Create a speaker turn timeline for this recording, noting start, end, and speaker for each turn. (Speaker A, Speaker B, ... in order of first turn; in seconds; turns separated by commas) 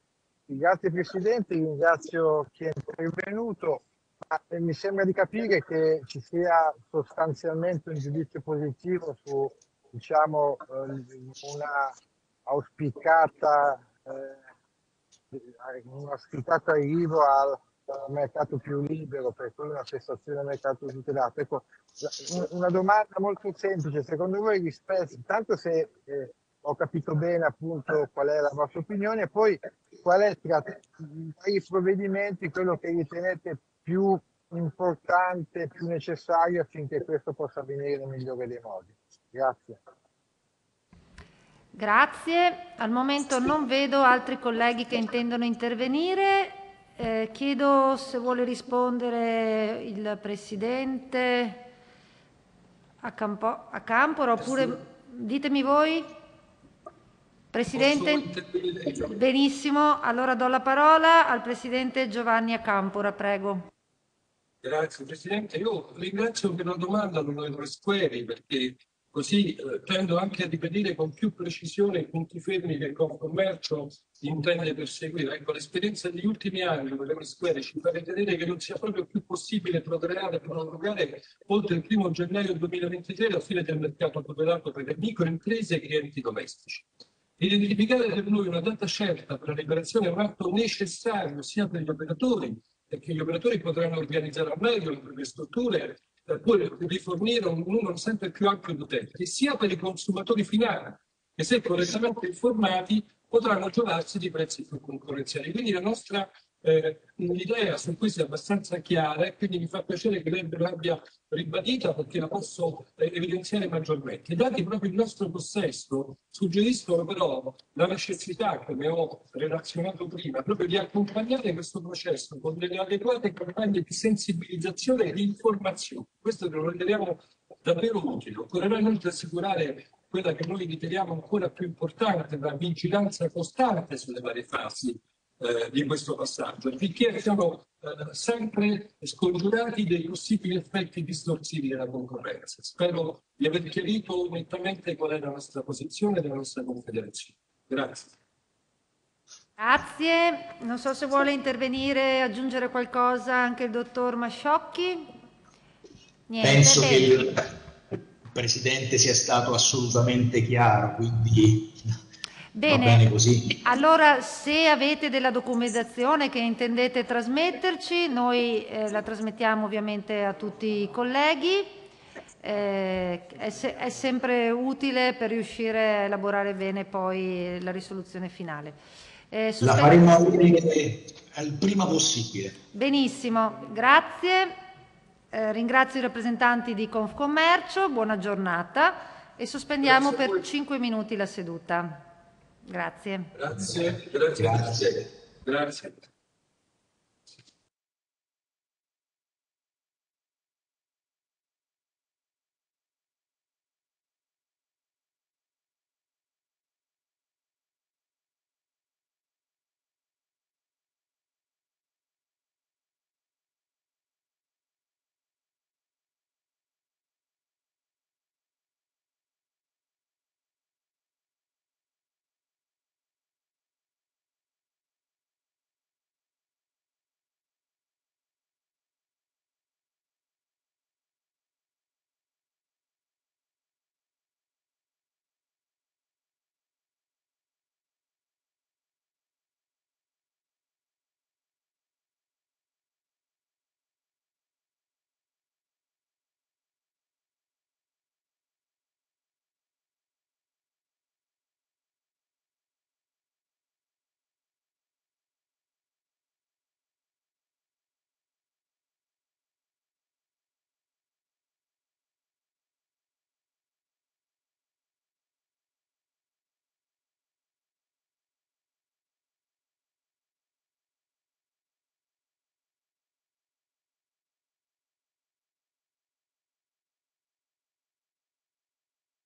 Speaker A: 0.5-11.9, Speaker A: 12.5-14.4, Speaker A: 15.3-39.8, Speaker B: 41.7-51.7, Speaker B: 53.0-56.1, Speaker B: 57.5-58.3, Speaker C: 57.7-59.1, Speaker B: 59.1-63.7, Speaker C: 64.6-86.8, Speaker C: 87.4-148.1, Speaker B: 149.6-155.1, Speaker B: 156.3-157.2, Speaker D: 156.4-157.5, Speaker D: 158.3-161.8, Speaker B: 162.5-171.7, Speaker D: 162.7-163.6, Speaker B: 172.4-178.8, Speaker B: 179.3-180.1, Speaker D: 179.6-182.6, Speaker B: 182.7-184.5, Speaker B: 185.3-192.0, Speaker C: 189.8-190.3, Speaker B: 192.7-193.3, Speaker C: 193.3-196.0, Speaker D: 193.5-195.1